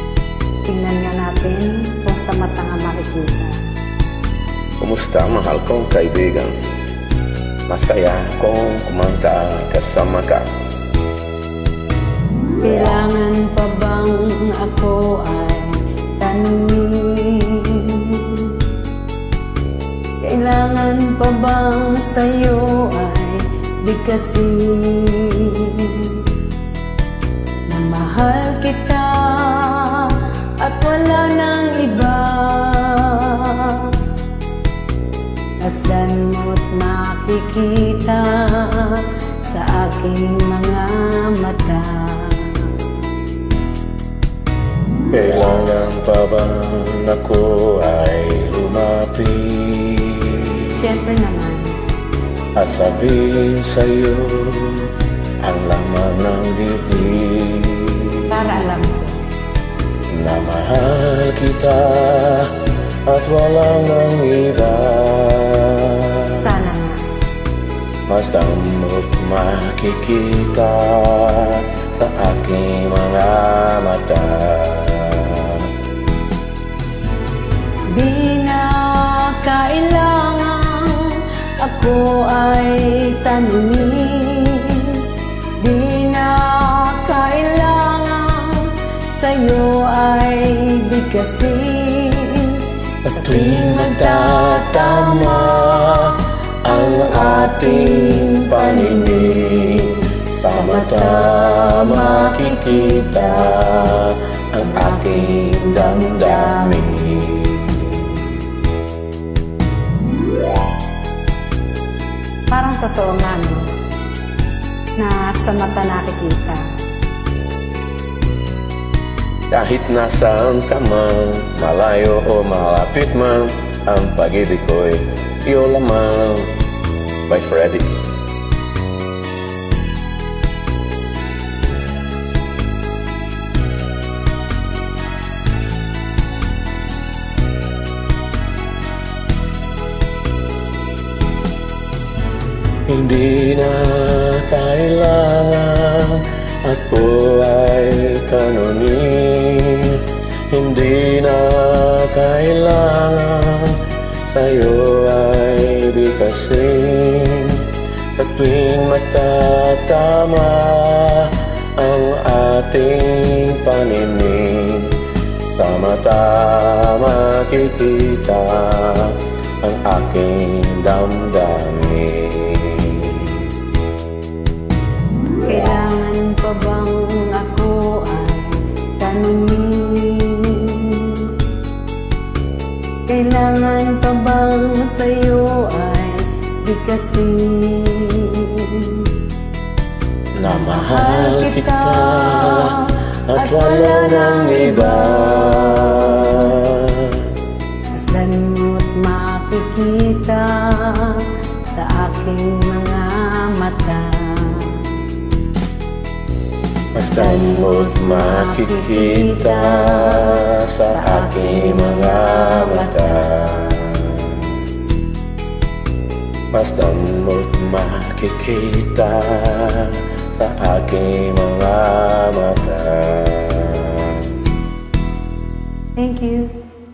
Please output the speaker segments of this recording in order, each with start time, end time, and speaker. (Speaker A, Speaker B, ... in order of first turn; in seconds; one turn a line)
Speaker A: 0.7-3.6
Speaker B: 4.8-6.5
Speaker B: 7.7-10.5
Speaker A: 12.6-18.6
Speaker A: 20.2-26.2
Speaker A: 27.7-33.9
Speaker A: 35.6-42.7
Speaker B: 45.1-50.7
Speaker A: 50.7-51.8
Speaker B: 52.6-54.9
Speaker B: 55.4-58.6
Speaker A: 58.3-59.3
Speaker B: 60.1-62.5
Speaker B: 63.0-66.3
Speaker A: 66.3-67.0
Speaker B: 68.1-75.7
Speaker A: 77.9-85.0
Speaker A: 85.6-95.7
Speaker B: 93.0-108.3
Speaker A: 96.7-104.0
Speaker A: 104.6-106.8
Speaker A: 112.5-113.7
Speaker A: 115.0-116.6
Speaker B: 119.5-126.5
Speaker B: 127.3-127.9
Speaker B: 142.9-164.9
Speaker B: 165.5-173.4
Speaker A: 175.4-181.3
Speaker A: 183.1-189.1
Speaker B: 190.3-192.8
Speaker A: 190.5-196.5
Speaker B: 193.3-197.3
Speaker A: 197.9-204.8
Speaker B: 206.9-214.5
Speaker A: 207.1-213.6
Speaker B: 216.5-224.3
Speaker A: 225.9-226.5